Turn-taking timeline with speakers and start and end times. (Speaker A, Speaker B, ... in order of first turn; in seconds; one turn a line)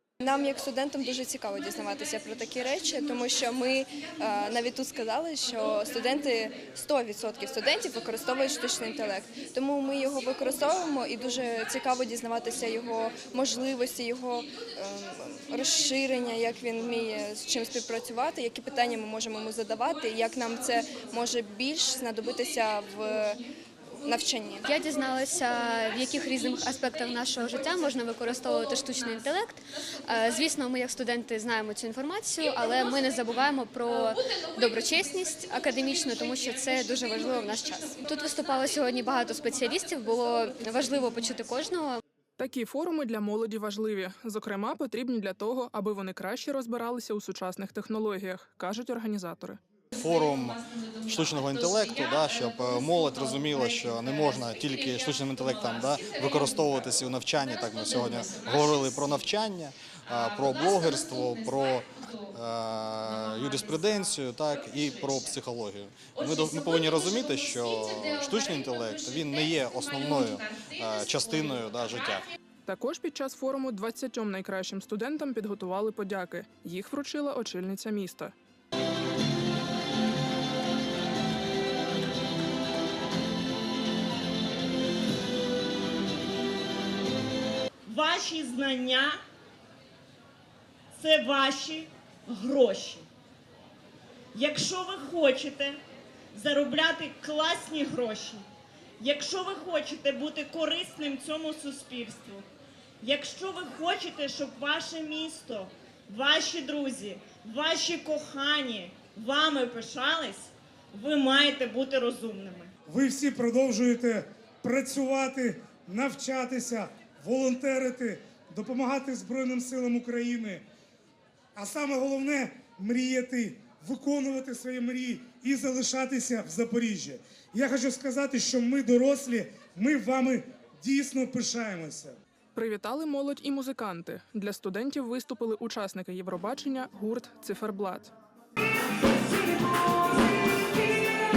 Speaker A: 0.2-23.5
Speaker A: 24.0-24.7
Speaker B: 24.7-42.0
Speaker C: 42.4-49.6
Speaker D: 49.9-72.3
Speaker C: 72.7-78.3
Speaker E: 87.9-89.2
Speaker E: 91.0-93.0
Speaker E: 94.3-95.8
Speaker E: 96.3-98.4
Speaker E: 99.0-102.5
Speaker E: 103.0-112.7
Speaker F: 112.9-120.7
Speaker F: 121.5-132.2
Speaker C: 132.6-138.1